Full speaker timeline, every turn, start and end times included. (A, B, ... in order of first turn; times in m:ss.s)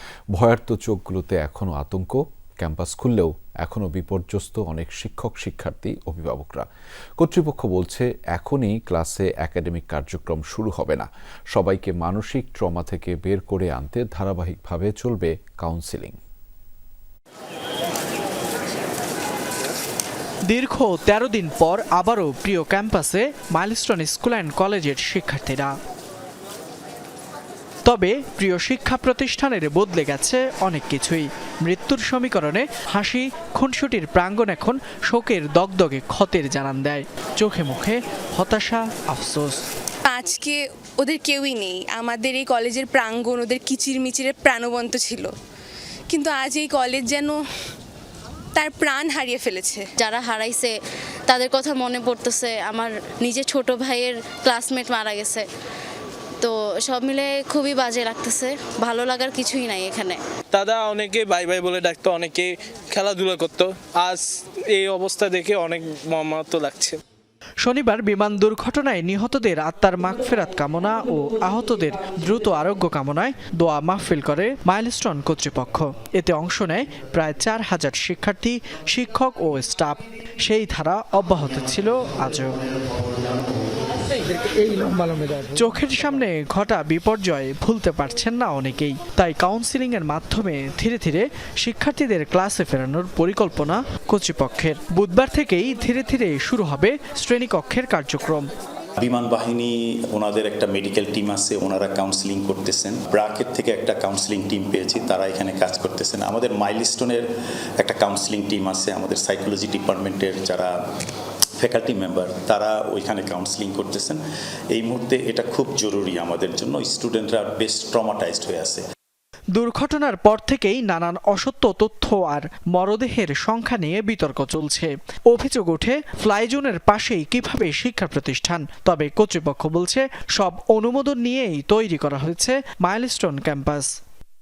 0:00.3-0:06.6 A
0:07.2-0:16.2 A
0:20.5-0:25.7 B
0:27.8-0:39.6 B
0:40.0-0:45.3 C
0:46.1-0:47.4 C
0:48.5-0:49.9 C
0:50.0-0:50.8 D
0:51.3-0:55.4 D
0:56.4-1:00.2 D
1:00.5-1:07.0 E
1:07.6-1:22.5 B
1:25.5-1:38.5 B
1:39.0-1:47.3 F
1:47.8-1:50.8 F
1:51.6-1:54.2 F
1:54.7-1:58.8 F
1:59.5-2:13.9 B